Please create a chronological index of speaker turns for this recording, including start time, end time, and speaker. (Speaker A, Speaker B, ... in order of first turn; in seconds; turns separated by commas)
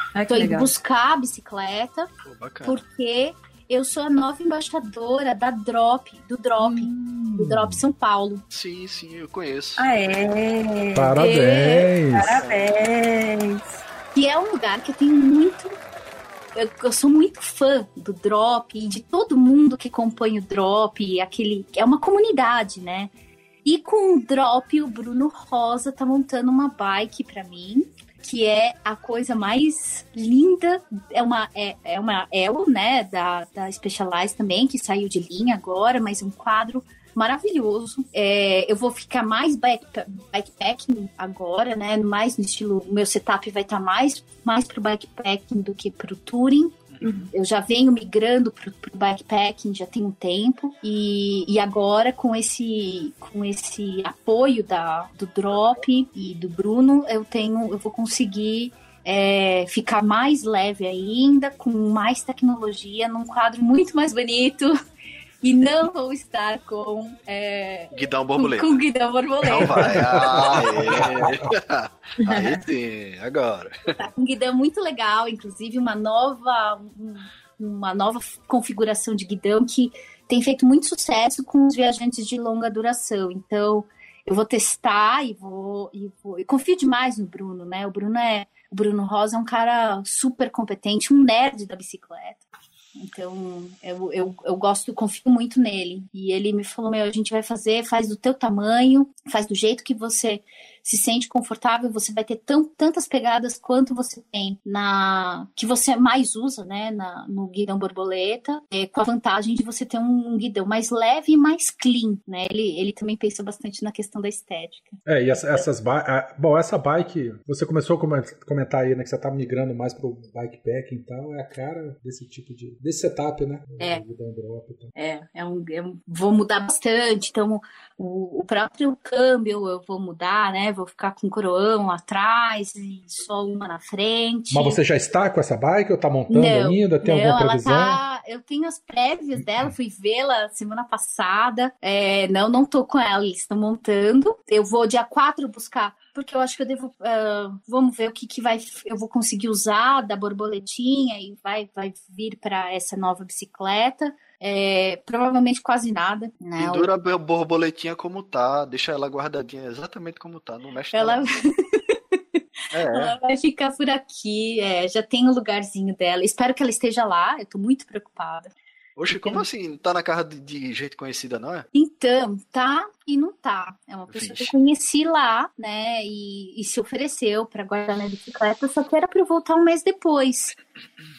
Speaker A: 0.1-0.7, Speaker B: 0.3-2.1, Speaker C: 2.2-2.8, Speaker B: 2.6-8.4, Speaker A: 6.6-7.2, Speaker D: 7.4-7.8, Speaker C: 8.5-9.8, Speaker A: 9.8-11.3, Speaker D: 10.9-12.4, Speaker B: 11.2-11.9, Speaker A: 12.1-13.6, Speaker C: 12.4-12.6, Speaker B: 14.1-15.7, Speaker B: 16.5-23.1, Speaker B: 23.6-46.7, Speaker C: 46.9-47.2, Speaker B: 47.3-64.8, Speaker B: 65.4-70.5, Speaker C: 67.9-68.7, Speaker C: 69.4-73.9, Speaker D: 70.0-71.3, Speaker B: 74.0-92.4, Speaker B: 93.0-115.0, Speaker D: 115.0-124.9, Speaker B: 125.0-134.8, Speaker D: 134.5-138.0, Speaker B: 136.3-156.9, Speaker C: 156.6-161.2, Speaker B: 160.9-162.2, Speaker C: 162.7-163.1, Speaker B: 162.9-168.5, Speaker C: 169.0-171.7, Speaker B: 169.1-169.4, Speaker B: 171.7-180.6, Speaker C: 174.1-174.5